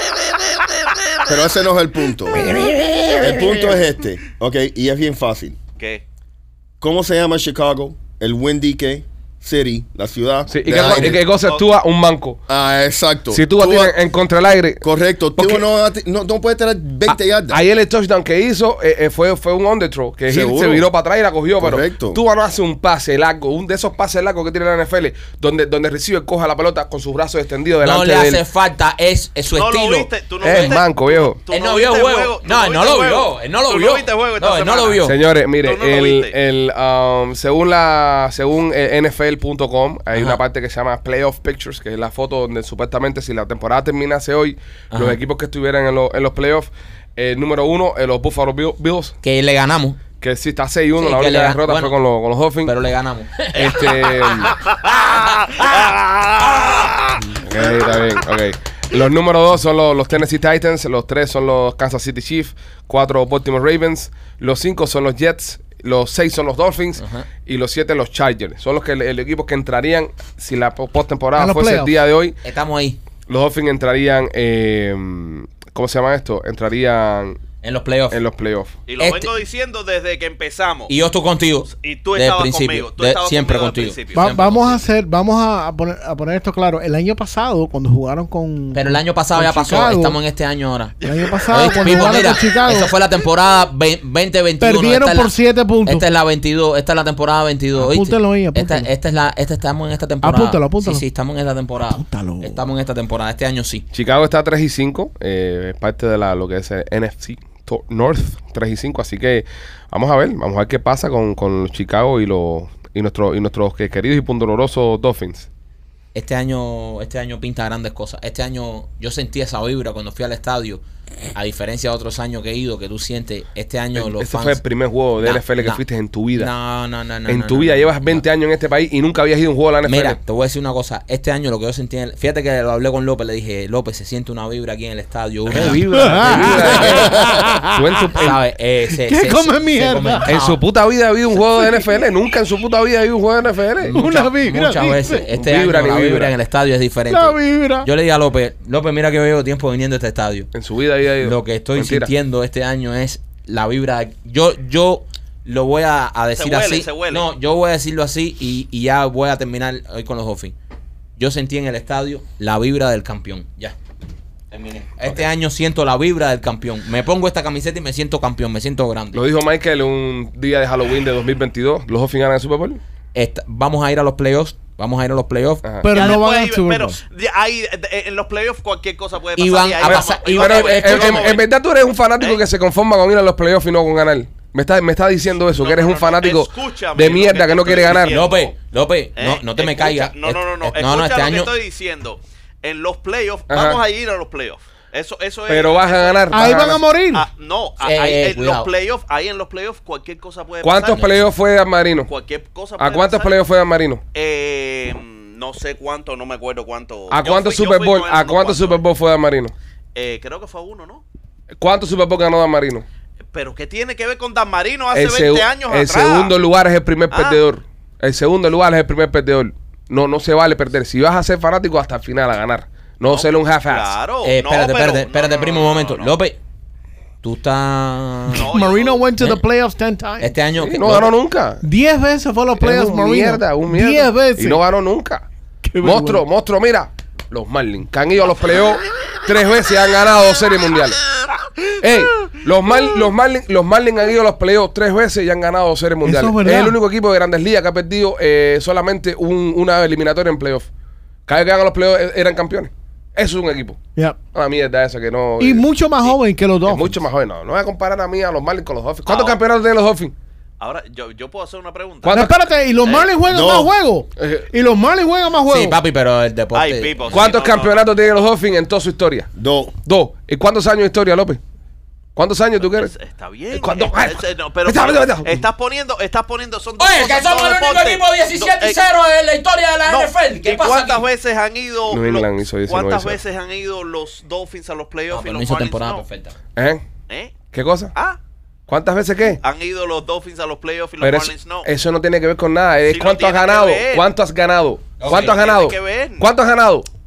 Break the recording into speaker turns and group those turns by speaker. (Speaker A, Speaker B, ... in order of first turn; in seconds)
Speaker A: 1.3-5.6, 6.8-11.3, 12.5-14.0, 14.8-17.6, 20.3-20.9, 21.6-22.2, 263.3-263.7, 269.4-269.7
Speaker B: 10.5-12.4, 13.3-14.8, 15.4-15.7, 17.1-28.4, 30.4-31.4, 35.0-49.2, 50.2-52.7, 53.5-54.5, 57.4-72.4, 73.3-77.4, 78.1-78.7, 103.9-115.5, 124.0-126.5, 127.3-130.2, 135.5-138.4, 140.3-144.0, 145.3-146.3, 150.5-152.1, 169.1-172.8, 175.6-176.0, 179.8-188.2, 193.5-193.8, 195.5-196.8, 200.6-202.1, 202.8-204.0, 207.1-209.5, 211.6-212.8, 214.9-224.0, 230.6-231.7, 232.6-235.2, 235.8-241.0, 241.8-250.7, 251.3-253.8, 254.3-255.7, 256.6-260.1, 262.1-262.5, 264.2-264.5, 267.1-269.3, 269.9-271.4, 272.2-272.9, 273.5-275.4, 281.9-283.2, 286.6-286.8, 287.5-287.9, 288.7-289.4, 291.0-296.9
Speaker C: 27.8-30.8, 31.5-35.2, 40.1-40.4, 44.9-45.2, 49.2-50.0, 51.0-52.0, 52.6-57.0, 67.0-67.3, 72.4-73.0, 77.6-78.2, 79.0-79.3, 80.9-84.8, 88.7-90.9, 91.5-103.9, 116.1-120.8, 121.3-124.6, 125.2-125.8, 126.3-128.3, 129.8-137.0, 138.2-140.6, 143.8-150.5, 151.2-160.6, 161.2-163.8, 164.5-169.2, 173.1-175.7, 179.4-181.4, 188.0-191.5, 197.8-198.7, 224.2-226.4, 227.2-228.5, 229.2-229.4, 230.2-231.1, 265.5-267.3, 276.8-281.1, 285.1-286.4, 295.0-295.3
Speaker D: 29.5-35.1, 35.6-36.4, 53.5-57.0, 78.9-80.9, 81.7-84.3, 91.0-92.1, 156.4-157.2, 175.9-181.5, 185.6-188.5, 189.2-201.1, 202.1-203.4, 204.1-208.8, 209.9-211.0, 213.3-216.3, 217.1-217.4, 223.1-226.1, 228.3-229.0, 259.1-259.4, 260.6-262.2, 262.9-263.1, 266.6-268.1, 272.6-278.8, 279.9-286.0, 287.1-287.4, 289.4-291.7, 292.9-294.1, 295.1-296.3
Speaker E: 71.3-72.0, 84.1-90.2, 91.0-92.9, 94.6-96.1, 97.8-98.9, 100.2-101.0, 101.9-102.6, 135.8-138.0, 139.0-140.3, 143.9-145.3, 147.1-147.9, 175.8-177.0, 196.3-197.3, 228.4-230.4, 231.6-234.6, 235.7-236.2, 246.0-246.8, 255.4-257.0, 262.1-265.8